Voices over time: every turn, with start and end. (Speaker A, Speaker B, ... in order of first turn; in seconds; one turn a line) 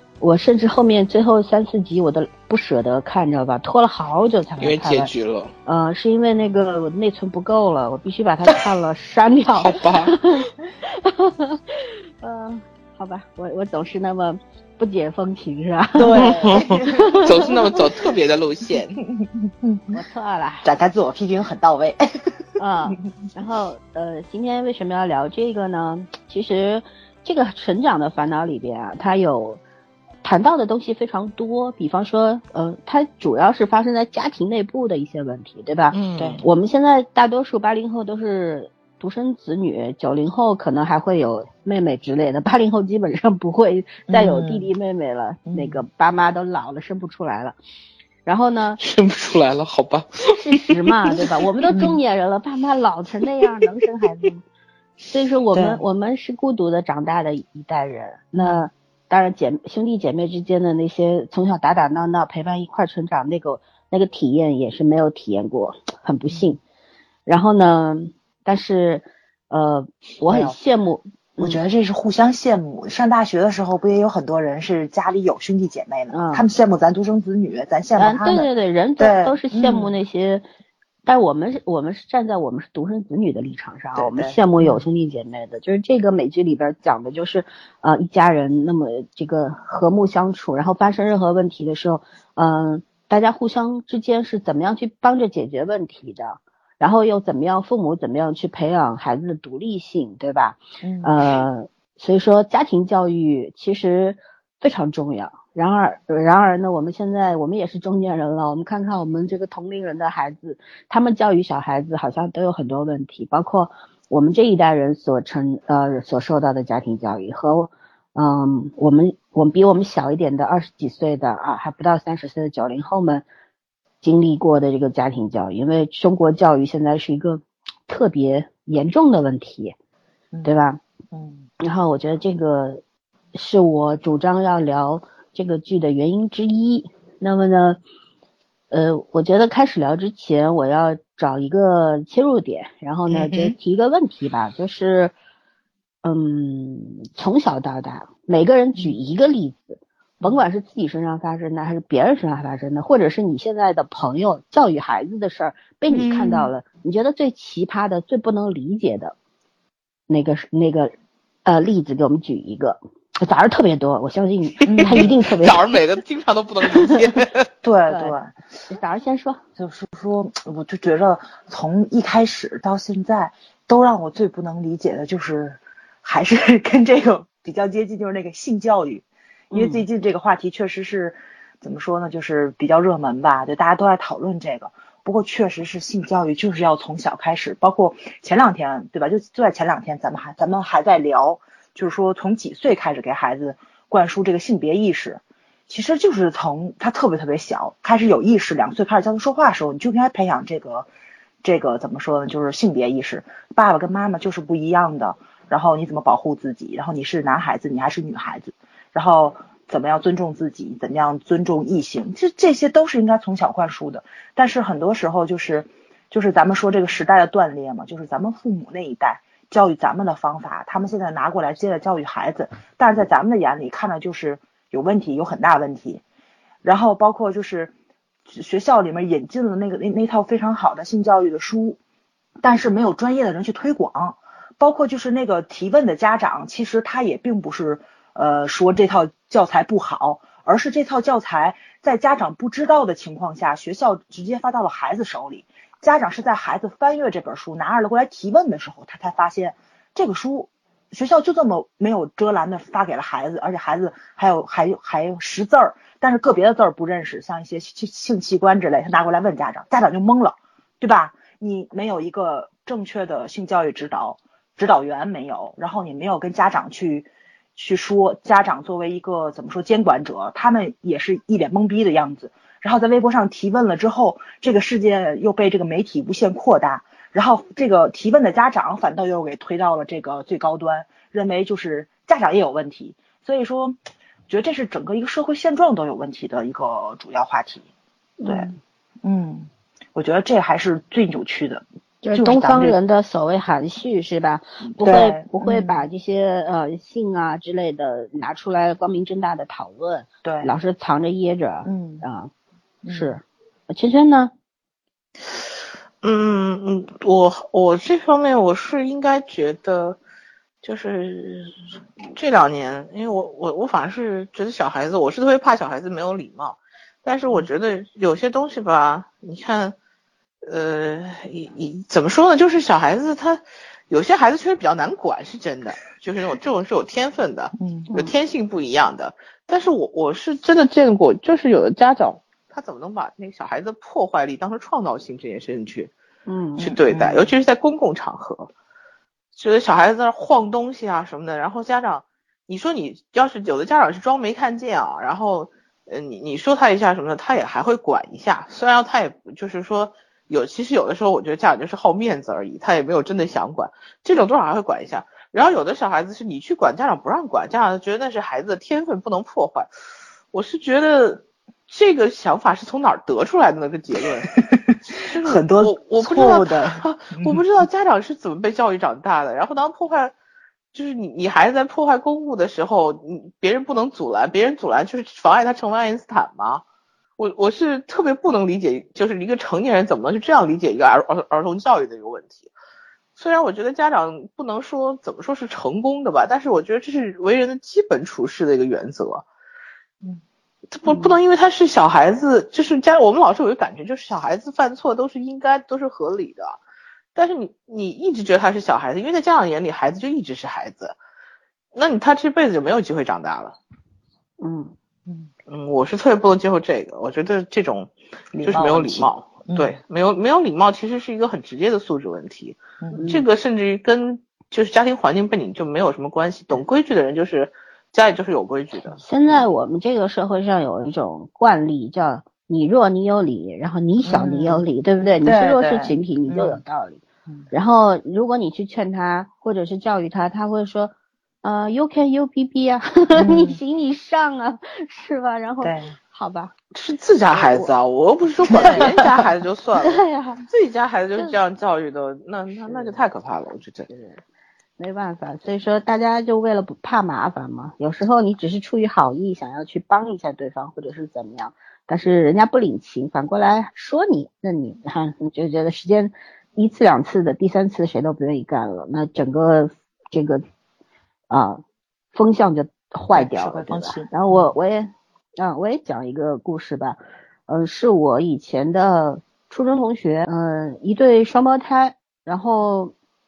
Speaker A: 0.2-5.1
Speaker B: 4.6-5.5
Speaker A: 5.7-17.5
Speaker B: 9.6-10.2
Speaker C: 16.0-18.0
Speaker B: 16.2-19.0
Speaker C: 19.6-20.0
Speaker A: 19.9-20.7
Speaker C: 20.6-22.3
Speaker A: 22.6-29.6
Speaker A: 30.2-47.5
Speaker B: 35.9-36.4
Speaker C: 36.2-36.4
Speaker C: 44.1-44.7
Speaker C: 45.5-45.8
Speaker A: 48.2-48.8
Speaker B: 48.8-51.1
Speaker A: 50.3-54.4
Speaker A: 55.1-66.6
Speaker C: 55.5-55.8
Speaker C: 58.4-58.7
Speaker A: 67.2-71.6
Speaker C: 70.3-70.5
Speaker C: 71.4-78.5
Speaker A: 76.1-76.5
Speaker A: 78.0-80.4
Speaker C: 79.0-79.9
Speaker A: 81.0-123.2
Speaker C: 83.9-84.8
Speaker C: 100.8-101.2
Speaker A: 124.0-129.7
Speaker A: 130.4-130.8
Speaker C: 131.1-131.4
Speaker A: 131.6-132.8
Speaker A: 133.3-137.8
Speaker A: 138.7-145.1
Speaker B: 143.1-143.5
Speaker A: 146.0-159.1
Speaker C: 155.9-156.5
Speaker A: 160.1-160.9
Speaker A: 161.4-165.6
Speaker C: 164.7-165.1
Speaker B: 164.7-167.5
Speaker C: 167.6-168.3
Speaker A: 167.9-168.2
Speaker A: 168.7-169.4
Speaker C: 169.6-200.9
Speaker A: 179.5-179.8
Speaker C: 201.4-226.0
Speaker C: 226.6-227.7
Speaker C: 228.3-231.8
Speaker C: 232.4-283.8
Speaker C: 284.3-287.6
Speaker A: 288.2-288.5
Speaker C: 288.2-288.5
Speaker C: 289.0-292.8
Speaker A: 292.0-302.3
Speaker C: 294.8-295.8
Speaker C: 300.2-300.5
Speaker C: 301.6-302.0
Speaker C: 302.8-303.1
Speaker A: 302.9-304.3
Speaker B: 306.0-310.0
Speaker B: 310.6-319.8
Speaker B: 320.4-335.9
Speaker C: 327.6-327.9
Speaker A: 336.3-336.7
Speaker C: 336.6-337.3
Speaker B: 336.6-338.5
Speaker B: 339.4-359.7
Speaker B: 360.3-364.4
Speaker B: 364.9-370.1
Speaker C: 365.2-367.4
Speaker B: 370.7-376.6
Speaker B: 377.2-382.5
Speaker B: 383.1-389.2
Speaker B: 390.7-396.6
Speaker A: 390.9-391.2
Speaker B: 397.1-400.9
Speaker B: 401.7-403.6
Speaker A: 404.4-404.7
Speaker B: 405.5-407.9
Speaker C: 408.3-409.8
Speaker B: 408.4-419.0
Speaker A: 412.9-413.2
Speaker A: 419.0-436.5
Speaker C: 424.0-424.6
Speaker C: 425.2-426.6
Speaker C: 433.2-433.6
Speaker C: 435.6-435.9
Speaker B: 436.7-443.9
Speaker A: 437.3-437.7
Speaker C: 438.6-439.1
Speaker A: 439.8-440.4
Speaker A: 444.8-460.4
Speaker A: 461.3-461.6
Speaker A: 462.1-472.9
Speaker C: 463.1-464.5